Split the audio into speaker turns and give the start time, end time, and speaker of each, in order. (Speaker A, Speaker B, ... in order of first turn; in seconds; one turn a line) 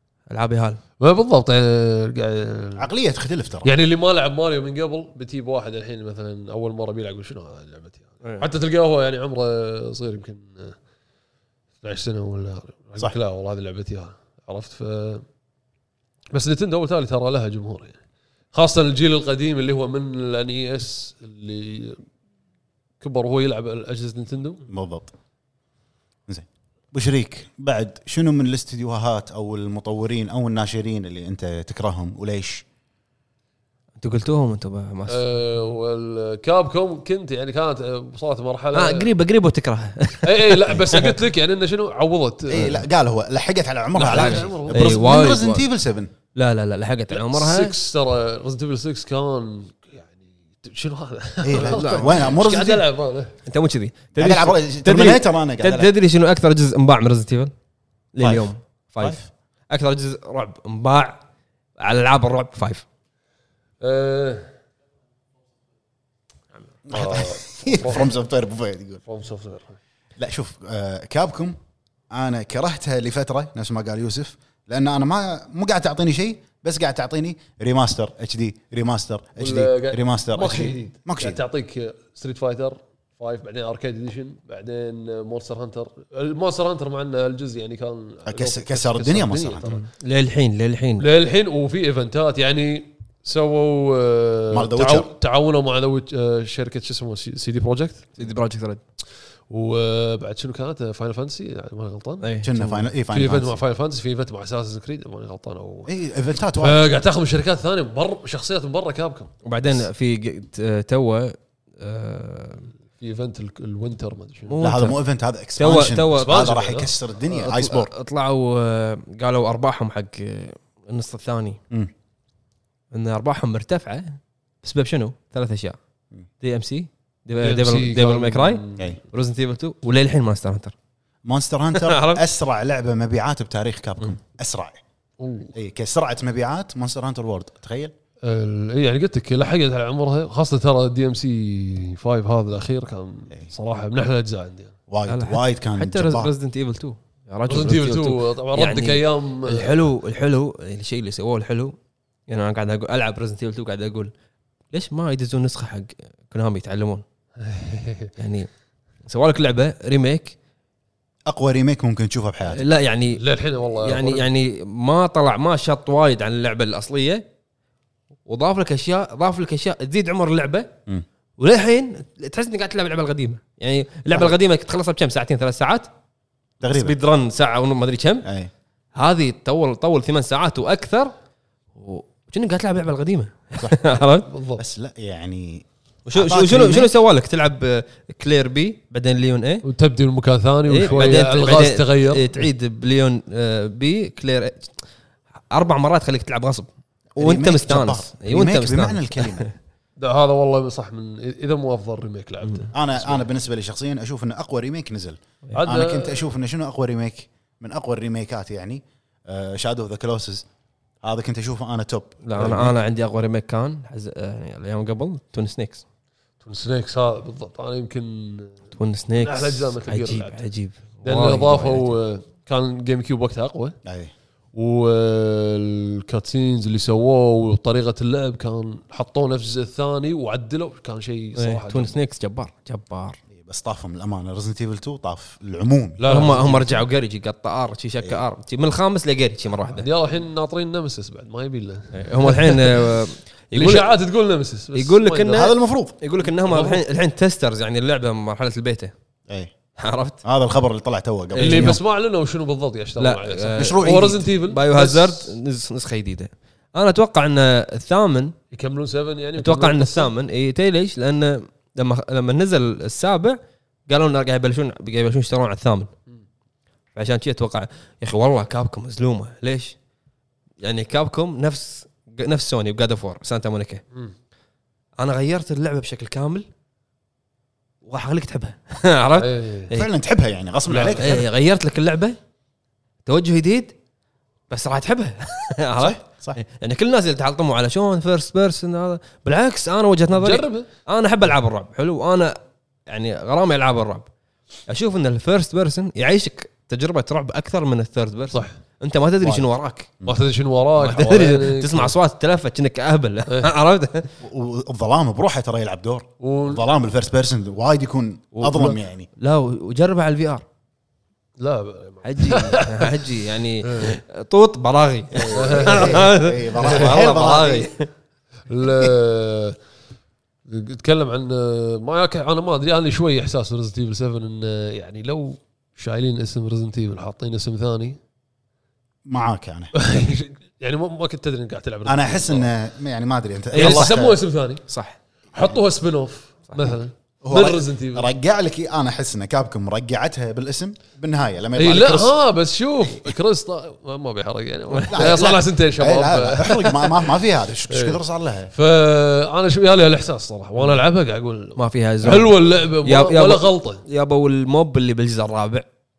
Speaker A: 0.3-0.8
Speaker B: 1.0-2.9
Speaker C: 2.8-3.7
Speaker B: 3.6-10.8
Speaker B: 11.8-15.2
Speaker B: 16.3-18.0
Speaker B: 18.5-22.0
Speaker B: 23.0-24.6
Speaker C: 24.7-25.1
Speaker C: 26.3-32.6
Speaker A: 34.0-35.2
Speaker B: 35.1-39.1
Speaker A: 38.7-41.2
Speaker B: 40.2-42.8
Speaker C: 42.5-46.1
Speaker B: 43.9-45.1
Speaker A: 44.0-45.6
Speaker A: 46.4-47.7
Speaker B: 47.1-53.4
Speaker C: 51.4-52.9
Speaker A: 51.6-52.2
Speaker A: 53.5-57.5
Speaker C: 54.2-55.9
Speaker A: 58.1-61.2
Speaker C: 58.2-58.5
Speaker C: 59.0-59.3
Speaker A: 61.8-62.8
Speaker B: 63.8-64.5
Speaker C: 66.9-69.0
Speaker B: 66.9-68.1
Speaker B: 69.1-69.8
Speaker C: 70.2-71.6
Speaker C: 72.1-81.4
Speaker B: 79.4-89.9
Speaker C: 88.3-89.7
Speaker A: 89.7-91.1
Speaker B: 91.0-98.1
Speaker C: 94.5-95.1
Speaker A: 98.2-98.8
Speaker B: 99.5-105.9
Speaker A: 102.2-102.7
Speaker C: 102.4-103.6
Speaker C: 105.9-106.9
Speaker B: 106.6-109.3
Speaker A: 109.5-112.7
Speaker B: 113.0-114.6
Speaker A: 114.5-115.0
Speaker C: 114.6-117.9
Speaker A: 115.6-116.8
Speaker B: 116.2-116.9
Speaker A: 117.3-121.6
Speaker A: 122.9-125.8
Speaker A: 126.4-130.7
Speaker B: 127.4-128.9
Speaker C: 131.3-134.8
Speaker A: 131.8-132.2
Speaker B: 135.2-135.5
Speaker C: 135.6-137.9
Speaker B: 138.2-144.8
Speaker C: 144.9-146.3
Speaker A: 145.1-151.8
Speaker B: 147.5-149.8
Speaker A: 152.3-154.1
Speaker A: 154.7-157.0
Speaker B: 157.4-158.1
Speaker A: 158.2-158.5
Speaker A: 159.1-160.4
Speaker C: 161.3-162.6
Speaker A: 162.5-163.2
Speaker B: 163.2-164.3
Speaker A: 163.8-167.2
Speaker A: 168.3-170.7
Speaker A: 171.4-175.9
Speaker C: 176.6-177.0
Speaker A: 176.7-178.3
Speaker C: 178.2-178.5
Speaker A: 179.0-181.1
Speaker A: 181.8-184.3
Speaker B: 184.3-184.6
Speaker C: 184.6-186.9
Speaker A: 186.1-189.7
Speaker B: 189.6-192.4
Speaker A: 190.7-194.7
Speaker A: 195.5-196.7
Speaker C: 197.2-199.5
Speaker A: 197.2-199.5
Speaker B: 200.0-203.2
Speaker C: 202.7-210.4
Speaker B: 205.6-206.3
Speaker C: 211.0-212.7
Speaker A: 212.3-215.8
Speaker B: 212.4-212.7
Speaker B: 216.4-218.6
Speaker A: 218.8-222.0
Speaker B: 219.2-220.4
Speaker B: 221.0-223.8
Speaker C: 223.8-224.1
Speaker B: 224.5-231.9
Speaker A: 231.4-233.2
Speaker C: 233.3-236.3
Speaker B: 236.0-236.8
Speaker A: 236.1-239.9
Speaker B: 239.7-242.9
Speaker A: 241.9-243.9
Speaker B: 243.6-245.4
Speaker A: 244.8-248.9
Speaker C: 245.3-245.9
Speaker B: 246.2-246.8
Speaker C: 249.3-249.5
Speaker A: 249.8-250.2
Speaker C: 250.2-251.8
Speaker A: 251.3-251.8
Speaker B: 251.4-255.3
Speaker A: 253.0-258.3
Speaker C: 253.6-254.2
Speaker B: 258.5-260.1
Speaker A: 259.4-263.4
Speaker A: 263.9-265.9
Speaker A: 266.9-269.8
Speaker A: 270.6-273.8
Speaker A: 275.0-276.5
Speaker A: 277.8-279.9
Speaker B: 279.2-279.7
Speaker C: 279.7-281.3
Speaker B: 280.7-281.2
Speaker A: 281.0-282.2
Speaker A: 283.1-283.7
Speaker A: 284.5-292.4
Speaker C: 285.8-286.4
Speaker B: 290.1-290.7
Speaker A: 292.9-294.1
Speaker A: 294.7-299.9
Speaker B: 298.3-298.6
Speaker B: 300.1-301.9
Speaker A: 300.8-304.1
Speaker C: 304.2-309.1
Speaker B: 306.2-306.6
Speaker B: 308.4-308.8
Speaker A: 309.2-310.4
Speaker B: 311.4-313.1
Speaker A: 312.0-317.9
Speaker B: 313.6-314.0
Speaker B: 315.1-316.8
Speaker C: 315.4-317.7
Speaker B: 318.5-319.6
Speaker B: 320.5-328.0
Speaker C: 329.1-329.7
Speaker B: 329.7-332.5
Speaker C: 331.9-334.2
Speaker A: 333.5-334.0
Speaker B: 333.6-334.6
Speaker A: 334.7-335.0
Speaker B: 335.4-338.1
Speaker C: 337.2-342.2
Speaker B: 341.6-347.1
Speaker A: 344.8-345.2
Speaker C: 344.9-348.5
Speaker B: 347.7-348.0
Speaker B: 348.5-353.8
Speaker A: 351.6-355.7